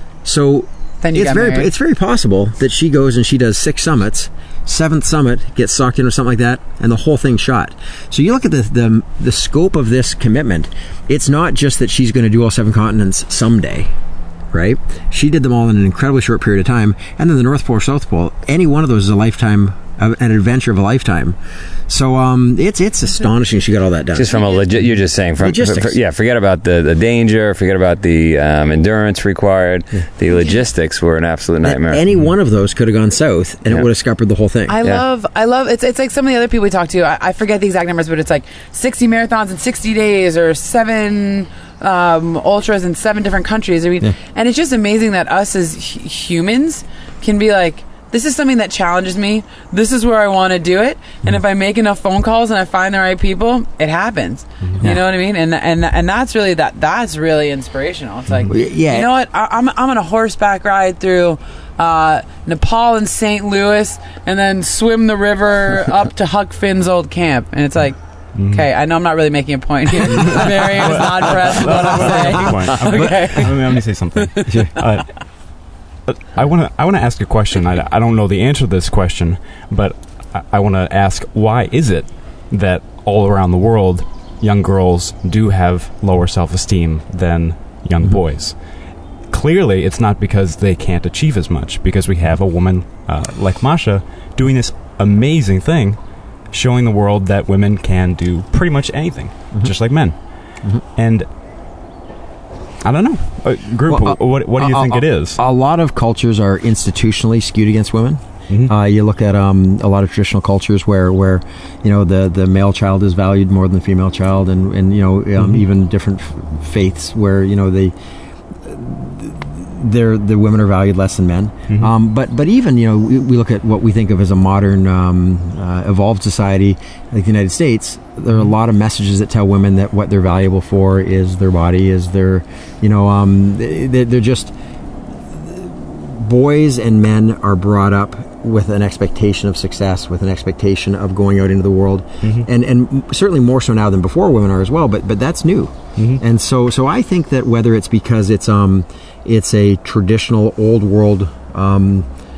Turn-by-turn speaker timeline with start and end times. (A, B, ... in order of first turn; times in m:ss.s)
0:00.2-0:13.9 A
0:01.0-0:01.7 B
0:14.5-0:21.4 A
0:21.9-0:24.4 A
0:24.1-0:32.0 C
0:25.4-0:26.0 A
0:31.6-0:34.8 A
0:34.7-1:14.6 B
0:58.5-0:59.1 A
1:08.3-1:08.7 D
1:10.2-1:41.3 D
1:12.0-1:13.3 A
1:39.5-1:40.1 A
1:42.8-1:45.4 D
1:43.8-1:57.9 A
1:55.4-1:55.6 D
1:58.6-2:14.5 A
2:15.3-2:32.1 A
2:26.0-2:26.2 D